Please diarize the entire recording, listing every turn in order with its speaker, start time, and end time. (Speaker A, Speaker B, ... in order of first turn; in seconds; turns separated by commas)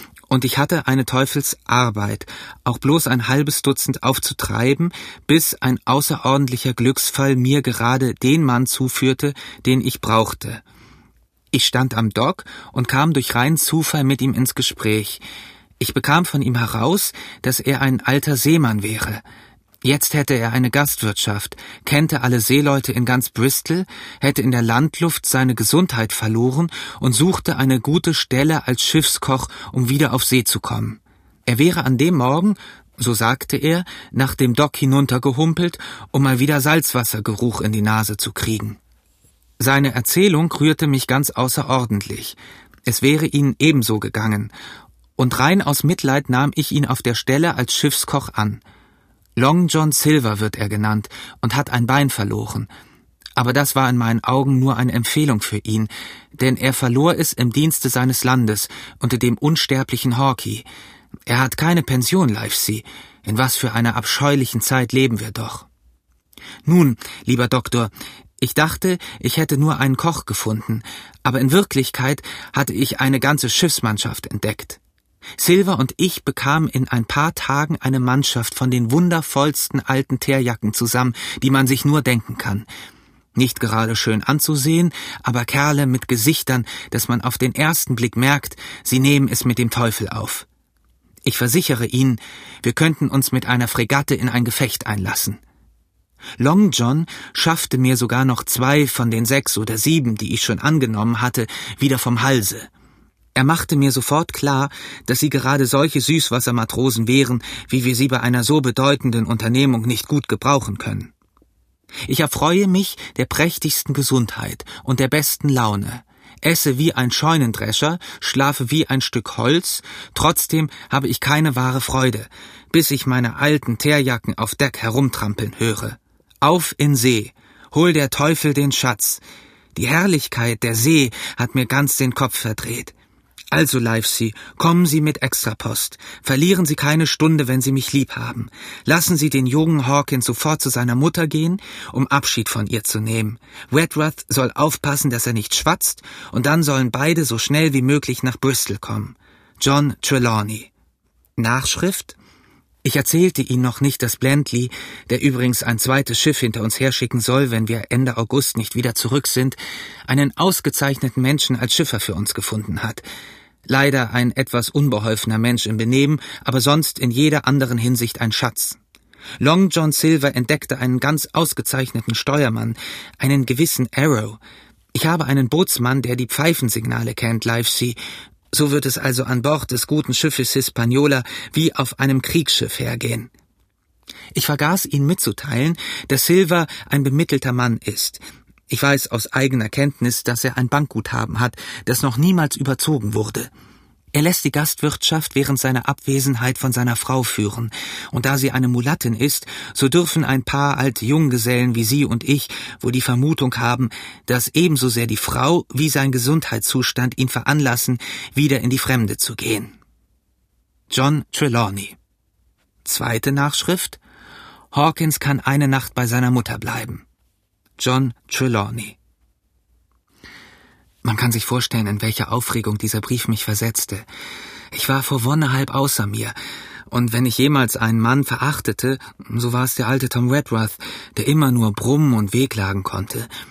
Speaker A: 0.3-10.6, Speaker A: 11.5-15.2, Speaker A: 15.8-19.2, Speaker A: 19.8-38.8, Speaker A: 39.6-44.5, Speaker A: 45.2-48.6, Speaker A: 49.4-52.7, Speaker A: 53.4-60.6, Speaker A: 61.3-65.7, Speaker A: 66.7-74.8, Speaker A: 75.4-82.7, Speaker A: 83.3-90.5, Speaker A: 91.2-95.4, Speaker A: 96.4-102.7, Speaker A: 103.3-111.1, Speaker A: 112.1-129.2, Speaker A: 129.7-132.9, Speaker A: 133.5-150.7, Speaker A: 151.4-152.2, Speaker A: 152.8-163.0, Speaker A: 163.7-168.8, Speaker A: 169.4-174.4, Speaker A: 174.9-178.0, Speaker A: 178.5-183.3, Speaker A: 184.3-193.5, Speaker A: 194.1-209.8, Speaker A: 210.9-211.9, Speaker A: 212.8-214.0, Speaker A: 214.7-217.0, Speaker A: 217.8-219.0, Speaker A: 221.0-224.1, Speaker A: 224.7-226.3, Speaker A: 226.9-233.3